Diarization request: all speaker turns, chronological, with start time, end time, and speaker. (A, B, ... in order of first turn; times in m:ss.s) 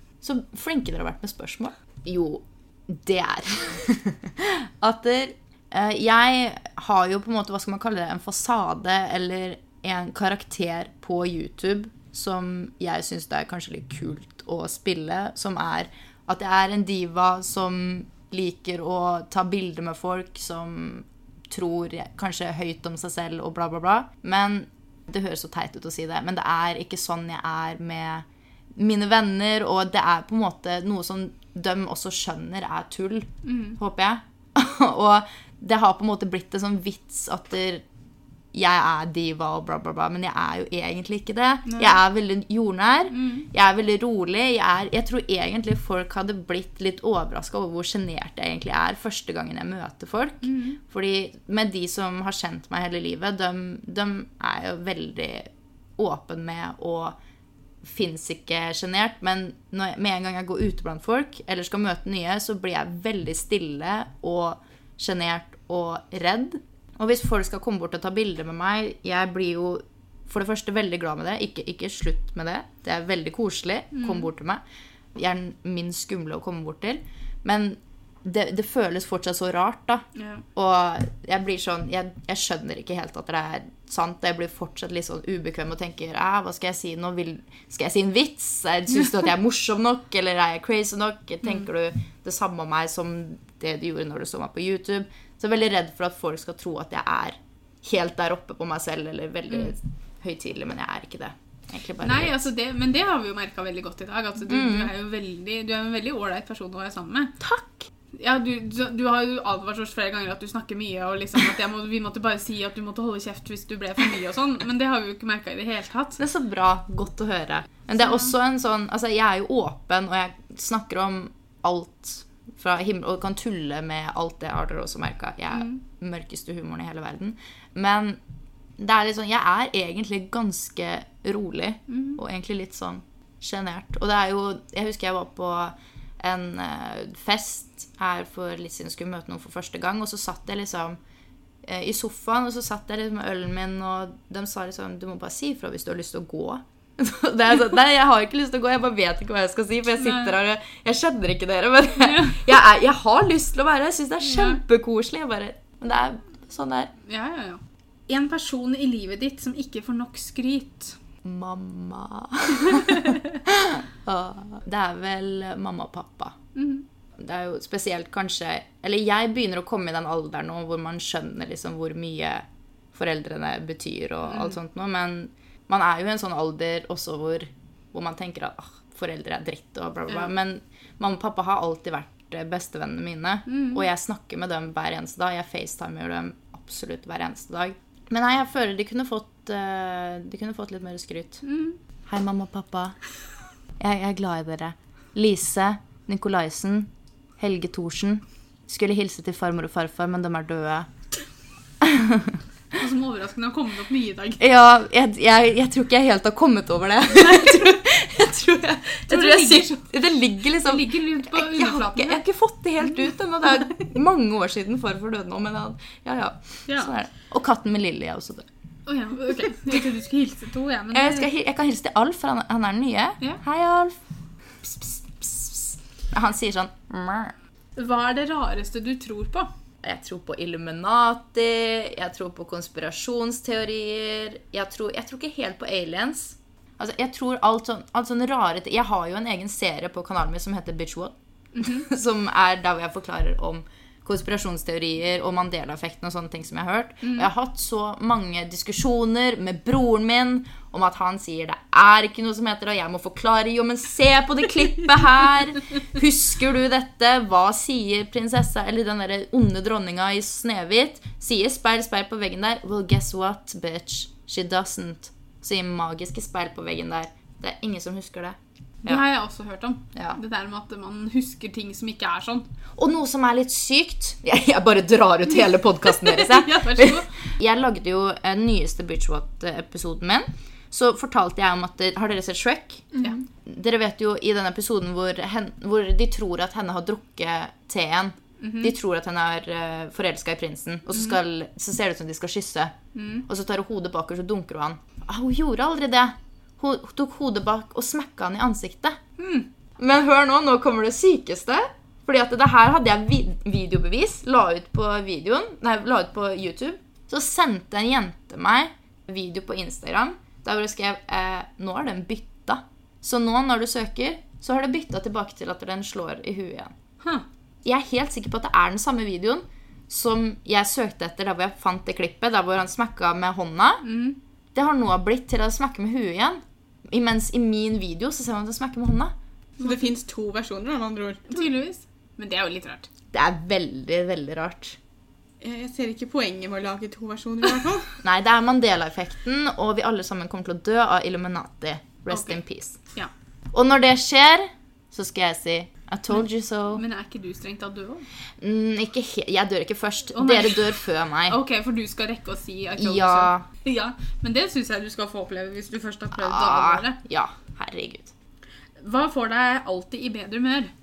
0:00.2-0:37.8 A
0:33.4-0:33.8 B
0:38.5-0:57.2 A
0:41.7-0:42.0 B
0:43.1-0:43.5 B
0:50.4-0:50.8 B
0:57.8-1:14.6 A
1:13.9-1:14.3 B
1:15.2-1:42.4 A
1:20.2-1:20.4 B
1:42.0-1:47.4 B
1:44.5-1:44.9 A
1:47.4-1:47.8 A
1:48.1-1:56.2 B
1:56.2-2:08.2 A
1:58.0-1:58.3 B
2:05.5-2:05.8 B
2:08.8-2:21.0 A
2:11.9-2:12.2 B
2:21.6-2:36.9 A
2:30.0-2:30.3 B
2:32.0-2:32.4 B
2:34.2-2:34.6 B
2:37.1-2:41.0 B
2:41.2-2:46.4 A
2:42.6-2:43.4 B
2:46.6-2:46.8 B
2:47.2-3:11.4 A
2:54.3-2:54.6 B
3:03.5-3:03.8 B
3:11.4-3:11.8 B
3:12.1-3:13.0 A
3:13.8-3:20.9 A
3:21.8-3:22.4 A
3:22.7-3:24.4 B
3:24.4-3:38.5 A
3:29.1-3:29.8 B
3:30.6-3:32.2 B
3:36.7-3:36.9 B
3:38.9-3:41.3 B
3:40.9-3:44.0 A
3:44.6-3:47.3 A
3:47.8-3:49.5 B
3:49.8-4:29.0 A
4:01.6-4:01.9 B
4:07.0-4:07.3 B
4:28.8-4:32.5 B
4:32.8-4:42.9 A
4:35.9-4:37.1 B
4:43.4-4:52.8 A
4:48.4-4:48.7 B
4:53.0-4:53.2 B
4:53.3-4:59.0 A
4:59.2-4:59.5 B
4:59.8-5:16.8 A
5:17.6-5:23.8 A
5:23.8-5:24.2 B
5:24.5-5:29.1 A
5:29.6-5:31.4 C
5:31.3-5:32.9 B
5:33.1-5:34.8 A
5:35.4-5:38.0 C
5:38.0-5:42.8 A
5:42.1-5:42.4 B
5:43.5-5:46.8 A
5:46.2-5:48.1 B
5:48.4-5:51.4 A
5:50.1-5:57.0 B
5:52.8-5:53.4 A
5:56.2-5:58.1 A
5:58.8-6:00.7 B